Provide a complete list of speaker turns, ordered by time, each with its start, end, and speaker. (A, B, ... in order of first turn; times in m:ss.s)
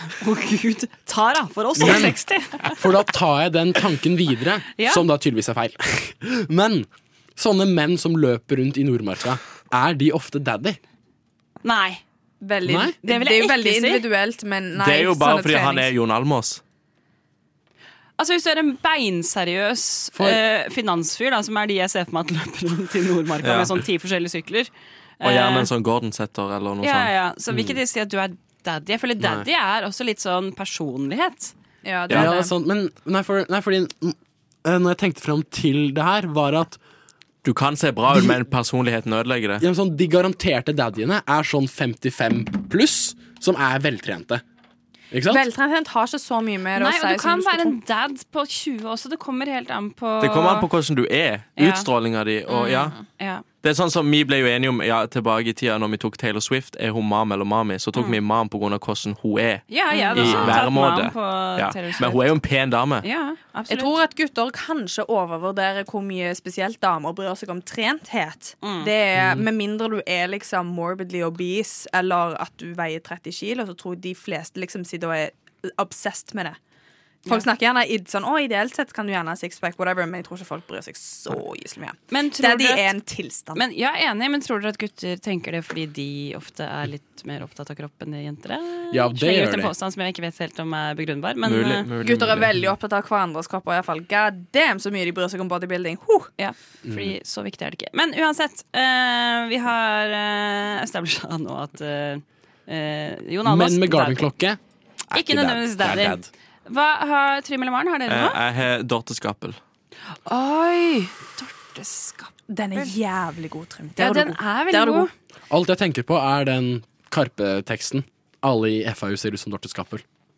0:00.2-0:02.8 A
0:01.8-0:10.8 B
0:04.8-0:05.0 A
0:11.6-0:12.0 A
0:12.4-0:15.9 C
0:12.6-0:12.9 B
0:13.0-0:14.0 A
0:14.8-0:16.6 D
0:18.2-0:25.7 A
0:20.1-0:20.4 B
0:23.4-0:23.7 D
0:25.2-0:27.1 D
0:26.8-0:31.5 A
0:29.2-0:29.5 B
0:31.8-0:32.5 C
0:32.1-0:36.8 B
0:37.4-0:39.6 D
0:39.6-0:44.4 B
0:45.1-0:45.4 B
0:45.3-0:47.8 C
0:46.8-0:50.7 A
0:50.2-0:52.9 D
0:51.6-0:51.9 A
0:52.5-0:53.4 A
0:53.6-1:03.0 D
0:59.7-1:02.3 A
0:59.9-1:00.5 C
1:00.2-1:00.5 B
1:03.0-1:03.9 A
1:03.7-1:16.6 C
1:08.6-1:08.9 A
1:17.2-1:23.6 C
1:22.1-1:22.9 A
1:23.5-1:31.9 A
1:28.9-1:29.7 B
1:31.4-1:32.5 D
1:32.0-1:36.3 C
1:36.4-1:44.3 A
1:36.8-1:37.2 B
1:43.4-1:46.3 B
1:45.1-1:48.4 A
1:48.1-1:49.6 D
1:50.2-1:52.9 A
1:52.5-1:55.1 C
1:54.0-1:55.1 A
1:55.5-2:00.0 B